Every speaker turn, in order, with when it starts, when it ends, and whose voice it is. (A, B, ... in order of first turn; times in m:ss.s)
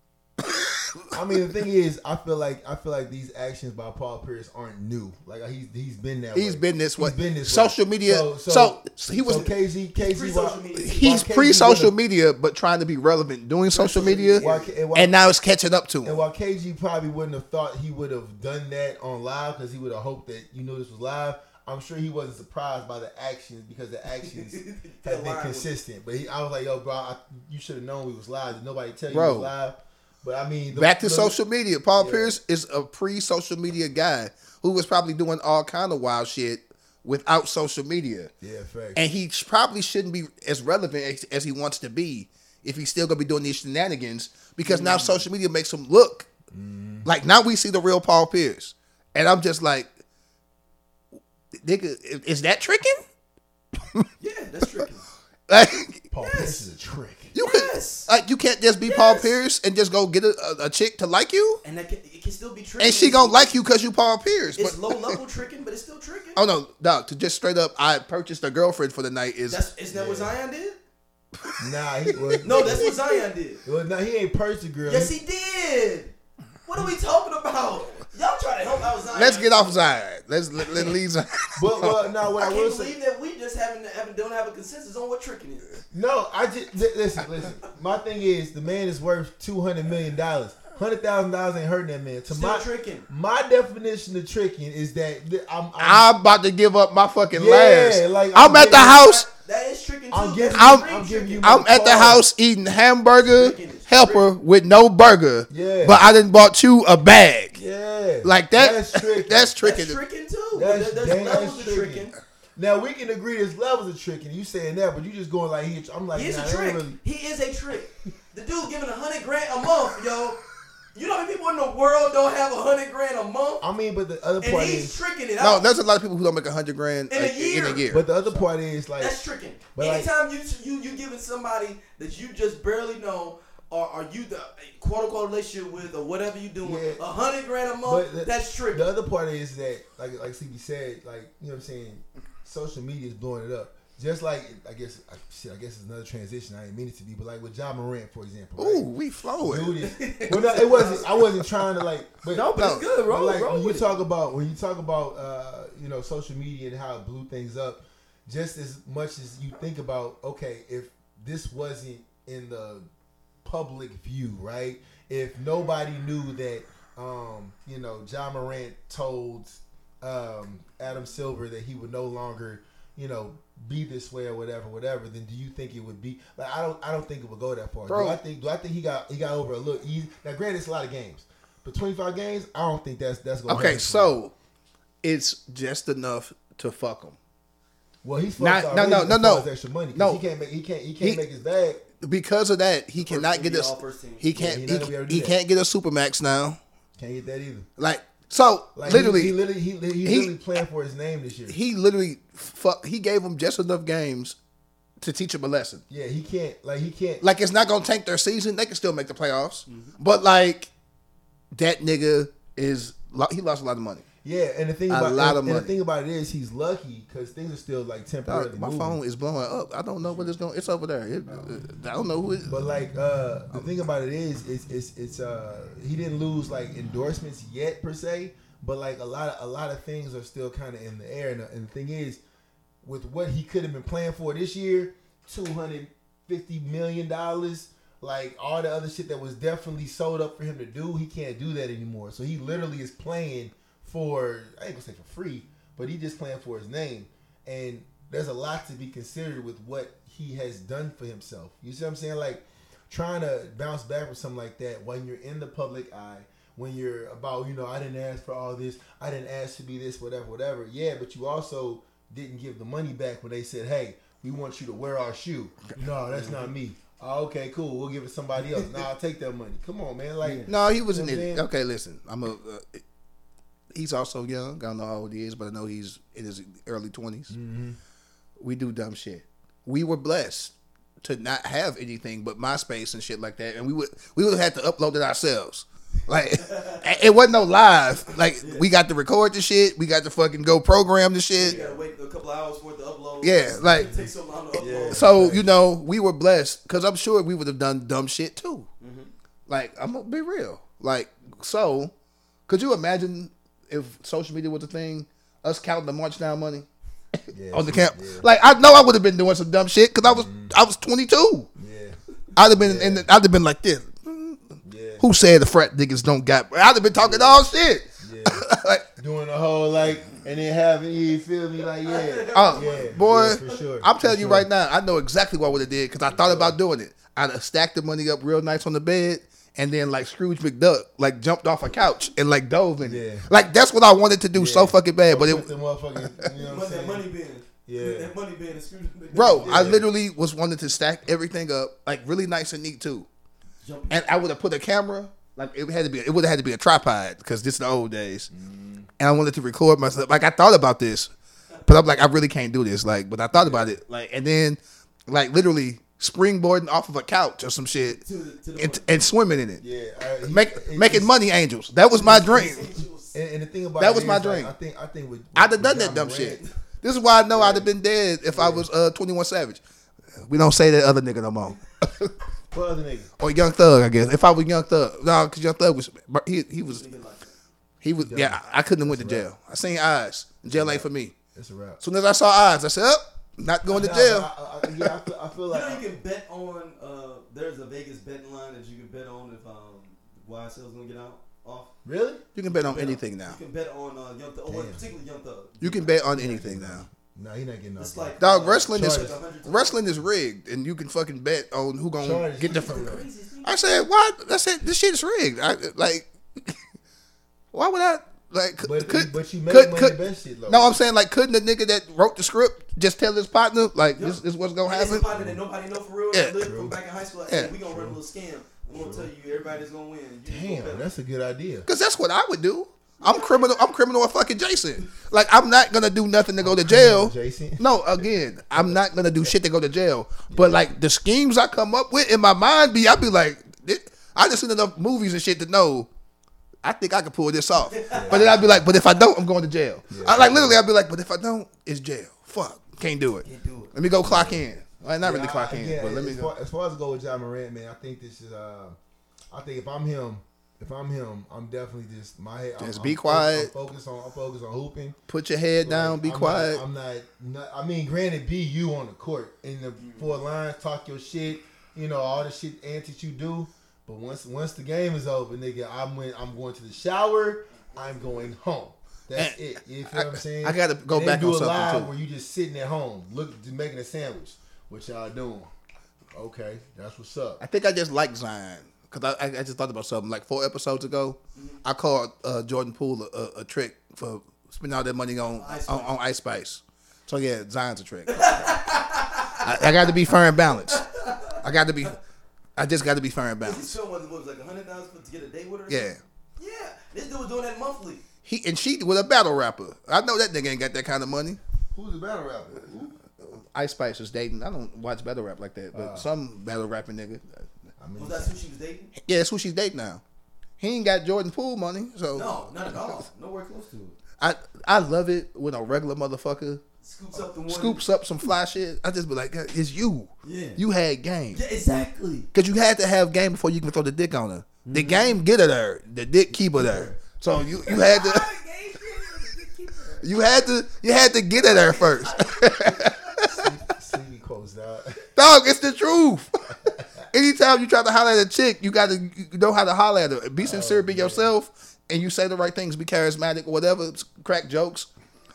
0:00.4-0:01.2 A
0:01.1-0:11.9 B
0:06.3-0:09.5 A
0:09.3-0:11.0 C
0:10.8-0:16.2 A
0:13.7-0:14.7 C
0:14.3-0:15.1 B
0:16.0-0:31.4 B
0:24.2-0:25.7 C
0:29.1-0:29.5 A
0:30.7-0:38.3 A
0:32.0-0:32.3 B
0:38.4-0:39.0 B
0:39.0-0:46.3 A
0:44.6-0:45.2 C
0:46.5-0:47.1 B
0:47.0-0:49.9 A
0:51.6-0:53.0 A
0:53.8-0:54.0 A
0:54.2-0:55.0 C
0:55.5-0:56.1 A
0:56.1-0:57.3 B
0:56.2-0:56.6 C
0:57.3-1:01.6 A
0:57.4-0:58.1 C
0:58.8-0:59.3 C
1:01.6-1:03.5 C
1:02.8-1:05.1 A
1:04.5-1:06.4 C
1:06.4-1:09.6 A
1:09.5-1:10.8 C
1:09.9-1:10.3 B
1:11.4-1:12.9 A
1:11.6-1:13.0 B
1:12.4-1:13.6 C
1:13.6-1:15.1 B
1:14.8-1:16.1 C
1:16.6-1:19.8 C
1:19.1-1:22.1 A
1:20.7-1:20.9 C
1:21.6-1:22.9 B
1:22.4-1:25.7 C
1:25.9-1:36.1 B
1:32.3-1:33.1 C
1:35.8-1:39.3 A
1:37.3-1:39.0 B
1:38.5-1:41.4 C
1:40.1-1:42.2 B
1:40.5-1:40.9 A
1:41.4-1:47.6 A
1:43.2-1:44.2 C
1:45.5-1:46.0 B
1:47.5-1:49.5 B
1:48.2-1:50.0 A
1:49.6-1:52.1 C
1:50.5-1:57.0 B
1:56.1-2:00.4 C
2:00.9-2:03.6 C
2:03.6-2:05.0 B
2:04.4-2:05.7 C
2:05.4-2:08.3 A
2:07.1-2:07.8 C
2:07.9-2:09.2 B
2:09.0-2:18.8 C
2:09.7-2:10.1 B
2:16.6-2:17.0 B
2:17.8-2:28.9 B
2:28.6-2:29.8 A
2:29.4-2:42.8 B
2:29.8-2:31.3 C
2:32.3-2:33.9 C
2:32.6-2:32.9 A
2:43.4-3:04.1 B
2:57.9-2:58.2 A
3:03.5-3:04.3 A
3:05.0-3:07.2 A
3:08.0-3:11.8 B
3:08.4-3:10.2 A
3:12.0-3:16.6 A
3:13.0-3:14.3 C
3:14.3-3:15.3 B
3:17.0-3:17.7 B
3:17.8-3:19.3 A
3:18.8-3:21.6 B
3:20.0-3:20.3 A
3:21.5-3:24.4 A
3:25.0-3:25.8 A
3:25.9-3:27.2 B
3:27.2-3:30.7 A
3:29.7-3:30.0 C
3:31.5-3:34.0 A
3:34.2-3:39.0 B
3:34.9-3:35.7 A
3:38.3-3:42.6 A
3:42.5-3:52.2 B
3:52.8-4:31.4 B
4:26.1-4:26.5 C
4:28.5-4:28.8 C
4:30.2-4:30.5 C
4:30.5-4:32.8 A
4:33.7-4:37.3 A
4:37.3-4:37.8 B
4:38.4-4:51.6 A
4:46.3-4:46.8 C
4:48.4-4:48.7 C
4:51.4-4:55.1 C
4:51.4-4:51.8 B
4:53.2-4:53.9 A
4:53.7-4:55.5 B
4:54.9-4:58.7 A
4:58.8-4:59.1 C
4:59.5-5:01.9 A
5:02.5-5:06.7 A
5:07.3-5:08.3 B
5:07.5-5:11.5 A
5:10.0-5:10.5 B
5:11.6-5:12.0 B
5:12.4-5:18.8 A
5:12.5-5:13.1 B
5:14.6-5:15.0 B
5:17.0-5:17.4 B
5:18.0-5:18.4 B
5:19.0-5:24.5 B
5:21.8-5:23.6 C
5:22.3-5:36.3 A
5:26.1-5:26.6 B
5:32.8-5:33.2 B
5:34.3-5:37.0 B
5:36.4-5:39.8 C
5:37.6-5:38.1 B
5:39.1-5:43.1 A
5:39.4-5:39.9 B
5:43.6-5:44.0 C
5:43.9-5:48.3 A
5:48.3-5:48.9 B
5:49.0-5:51.1 A
5:51.6-5:58.0 A
5:53.4-5:53.7 B
5:57.9-5:59.0 C
5:58.6-5:59.6 A
5:59.6-6:01.1 B
6:00.3-6:02.7 A
6:01.9-6:03.1 C
6:02.0-6:02.5 B
6:03.1-6:06.4 B
6:03.8-6:04.5 A
6:05.4-6:09.6 A
6:07.3-6:07.7 B
6:08.3-6:08.7 B
6:10.2-6:12.1 A
6:12.5-6:13.1 B
6:13.2-6:16.8 A
6:16.6-6:17.3 C
6:17.8-6:21.1 A
6:18.0-6:19.3 B
6:20.5-6:21.8 B
6:21.8-6:24.9 A
6:23.7-6:25.8 B
6:25.5-6:31.7 C
6:31.8-6:33.0 B
6:32.3-6:33.4 A
6:32.6-6:35.9 C
6:34.5-6:34.8 B
6:35.6-6:36.8 A
6:36.1-6:38.1 B
6:37.8-6:39.8 C
6:38.2-6:46.6 A
6:38.7-6:39.2 B
6:42.0-6:43.0 B
6:42.4-6:43.7 C
6:47.5-6:55.1 A
6:48.6-6:50.7 B
6:54.0-7:00.9 C
6:55.1-6:55.4 B
6:56.1-6:56.8 A
6:56.4-6:56.8 B
6:57.3-6:57.5 A
6:57.6-6:58.0 B
6:58.7-6:59.1 B
7:00.3-7:01.7 B
7:01.7-7:15.9 A
7:03.0-7:03.7 C
7:06.4-7:07.6 B
7:08.5-7:09.3 B
7:10.3-7:10.6 B
7:16.6-7:26.3 A
7:17.7-7:18.4 C
7:17.9-7:18.6 B
7:19.9-7:20.6 B
7:23.2-7:23.7 C
7:24.0-7:24.4 B
7:25.0-7:28.8 B
7:29.3-7:35.0 B
7:32.6-7:33.5 A
7:35.1-7:36.6 A
7:35.6-7:55.5 B
7:39.8-7:40.2 C
7:47.5-7:48.3 C
7:49.1-7:51.9 A
7:56.1-7:57.4 B
7:57.4-8:08.5 A
8:05.3-8:06.0 C
8:08.1-8:11.9 C
8:09.4-8:12.0 A
8:12.6-8:13.7 A
8:13.4-8:18.0 C
8:15.7-8:16.0 A
8:18.2-8:21.4 A
8:21.7-8:23.0 B
8:23.2-8:27.2 A
8:25.7-8:26.1 B
8:27.8-8:28.4 B
8:28.0-8:28.9 C
8:29.0-8:30.0 A
8:30.6-8:33.0 A
8:32.1-8:34.0 C
8:34.2-8:36.6 A
8:36.8-8:37.8 C
8:37.4-8:41.4 A
8:40.2-8:40.6 C
8:41.3-8:42.3 C
8:42.3-8:48.3 A
8:44.6-8:45.2 C
8:46.5-8:50.1 C
8:50.0-8:53.5 A
8:51.4-8:53.4 C
8:53.4-8:55.0 B
8:55.2-8:56.5 A
8:56.6-8:57.0 B
8:57.1-9:04.9 A
9:00.4-9:01.3 B